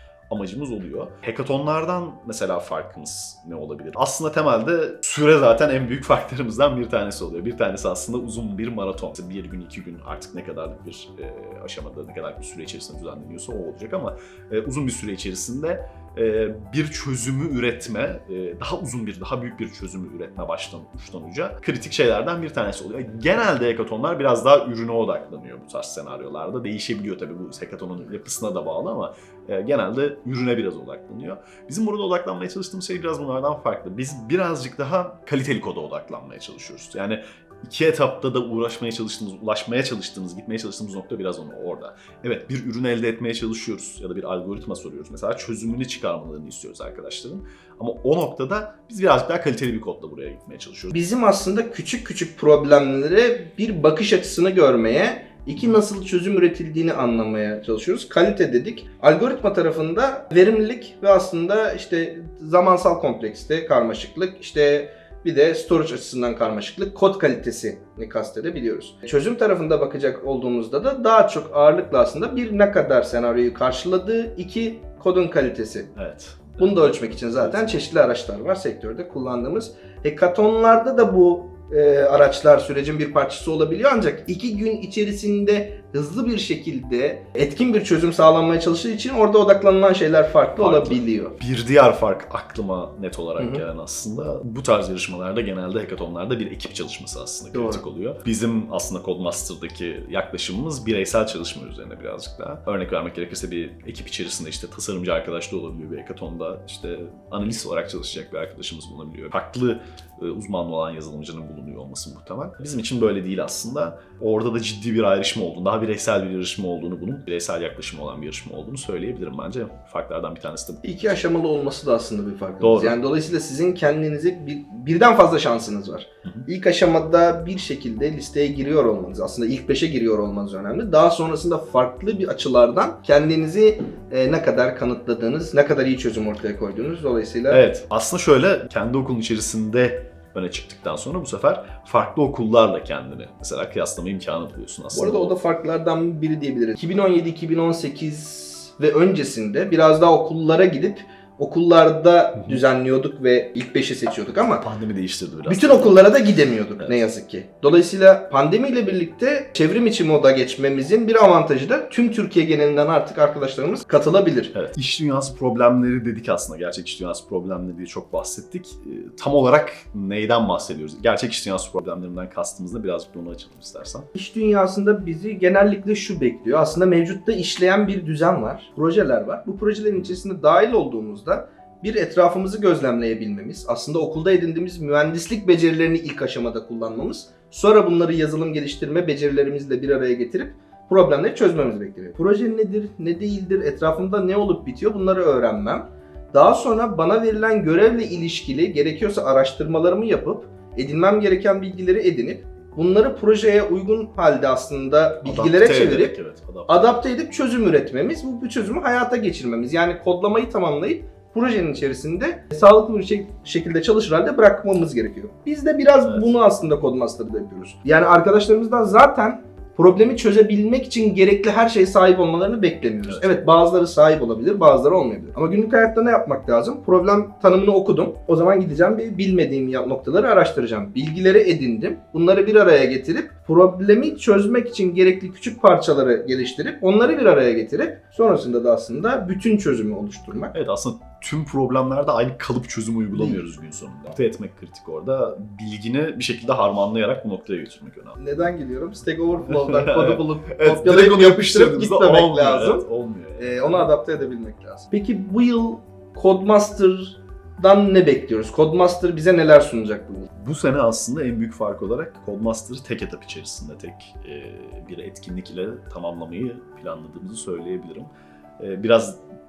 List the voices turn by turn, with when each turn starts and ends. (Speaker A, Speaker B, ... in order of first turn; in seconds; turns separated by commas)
Speaker A: 0.3-51.0, Speaker B: 50.9-75.9, Speaker A: 76.0-77.8, Speaker B: 76.6-91.4, Speaker A: 90.6-120.8, Speaker B: 93.4-93.6, Speaker B: 97.5-97.8, Speaker B: 120.8-137.6, Speaker A: 122.6-123.0, Speaker A: 137.5-145.3, Speaker B: 144.9-154.7, Speaker A: 154.6-156.0, Speaker B: 155.4-164.5, Speaker A: 164.5-174.1, Speaker B: 174.1-206.1, Speaker A: 205.2-207.0, Speaker B: 206.7-240.5, Speaker A: 216.0-216.3, Speaker A: 223.1-223.4, Speaker A: 240.5-248.3, Speaker B: 243.1-243.4, Speaker B: 248.2-252.8, Speaker A: 249.4-253.9, Speaker B: 253.4-260.3, Speaker A: 260.3-269.2